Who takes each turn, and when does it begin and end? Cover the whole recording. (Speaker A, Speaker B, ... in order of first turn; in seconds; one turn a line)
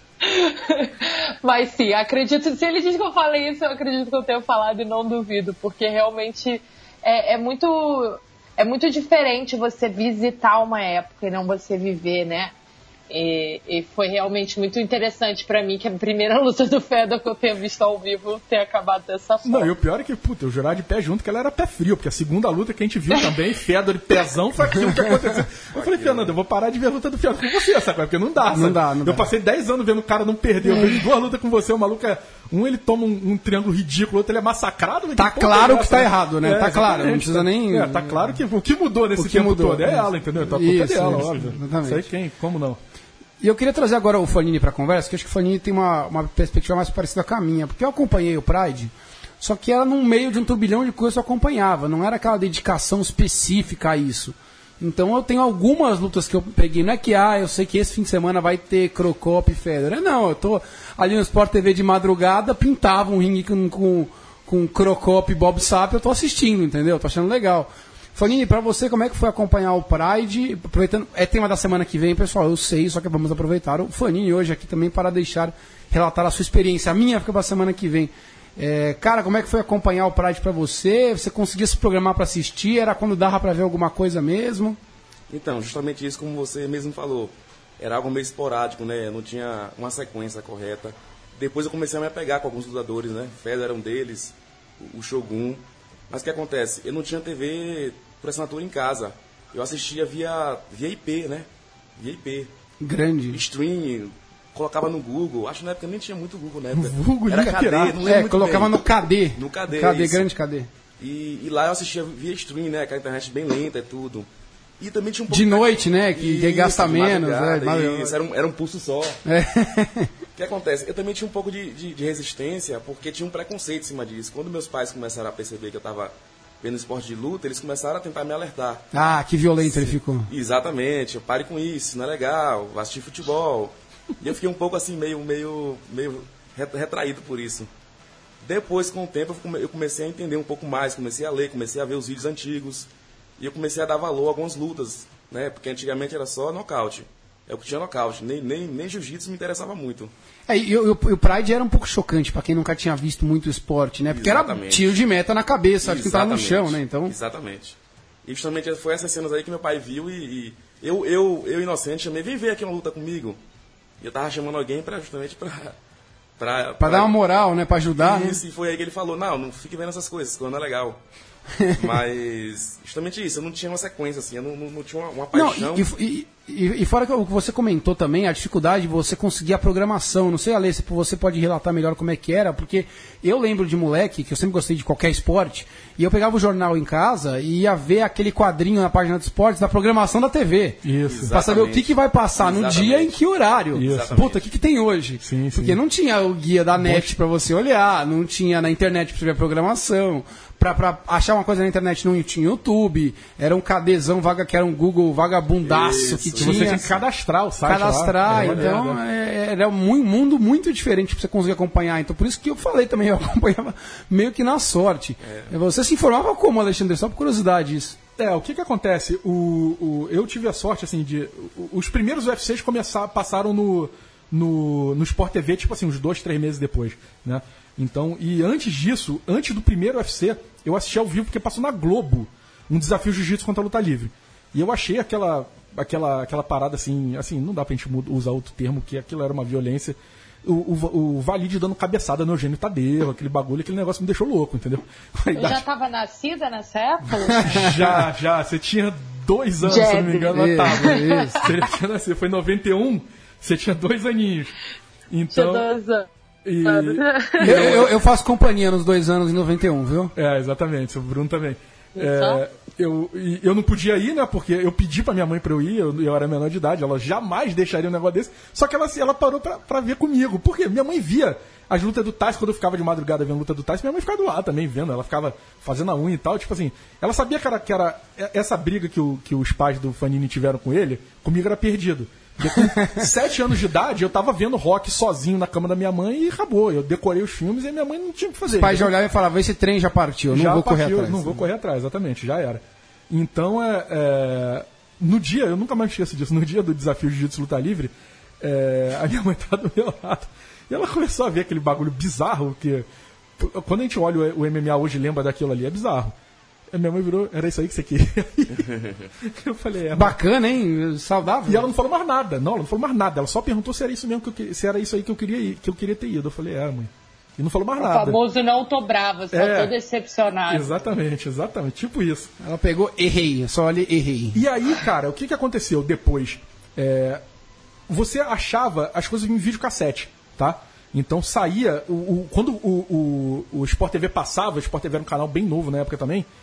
Speaker A: 0.2-12.5
Speaker A: 13.1-19.7
Speaker B: 19.4-42.8
Speaker C: 25.7-26.3
Speaker D: 28.5-29.3
Speaker D: 35.2-38.4
Speaker D: 39.2-42.1
Speaker D: 43.4-84.8
Speaker C: 85.3-102.5
Speaker D: 102.8-103.4
Speaker C: 103.3-110.3
Speaker B: 106.7-108.0
Speaker D: 108.0-110.7
Speaker C: 111.0-114.3
Speaker C: 114.8-119.2
Speaker D: 115.3-118.2
Speaker D: 119.3-120.1
Speaker C: 120.4-128.8
Speaker D: 128.9-130.3
Speaker C: 129.6-137.7
Speaker C: 138.4-142.9
Speaker C: 143.4-150.1
Speaker D: 150.5-157.2
Speaker C: 154.1-155.0
Speaker C: 155.8-163.4
Speaker C: 164.0-165.8
Speaker C: 166.4-167.1
Speaker D: 166.8-168.4
Speaker C: 168.0-171.0
Speaker D: 171.6-171.9
Speaker C: 171.7-175.9
Speaker D: 175.3-206.9
Speaker B: 190.8-191.3
Speaker C: 191.1-193.2
Speaker C: 193.8-194.5
Speaker B: 193.8-194.2
Speaker B: 195.2-195.8
Speaker B: 196.8-197.1
Speaker C: 205.7-207.0
Speaker B: 206.4-209.0
Speaker D: 207.7-218.0
Speaker C: 208.4-208.7
Speaker C: 215.2-215.5
Speaker B: 218.2-245.7
Speaker A: 245.3-247.8
Speaker D: 247.3-248.0
Speaker B: 247.4-254.5
Speaker A: 249.6-251.6
Speaker D: 250.3-251.4
Speaker B: 255.1-255.7
Speaker A: 255.3-256.1
Speaker B: 256.4-257.9
Speaker A: 256.6-257.8
Speaker D: 257.4-260.1
Speaker B: 260.1-288.9
Speaker A: 262.0-262.4
Speaker D: 282.5-283.1
Speaker D: 288.5-291.5
Speaker B: 290.3-302.9
Speaker B: 303.4-306.1
Speaker B: 306.7-310.2
Speaker D: 309.9-311.7
Speaker B: 311.4-318.2
Speaker A: 317.8-320.7
Speaker B: 319.3-319.7
Speaker B: 320.5-322.3
Speaker D: 322.4-324.4
Speaker B: 324.3-327.2
Speaker B: 327.9-336.3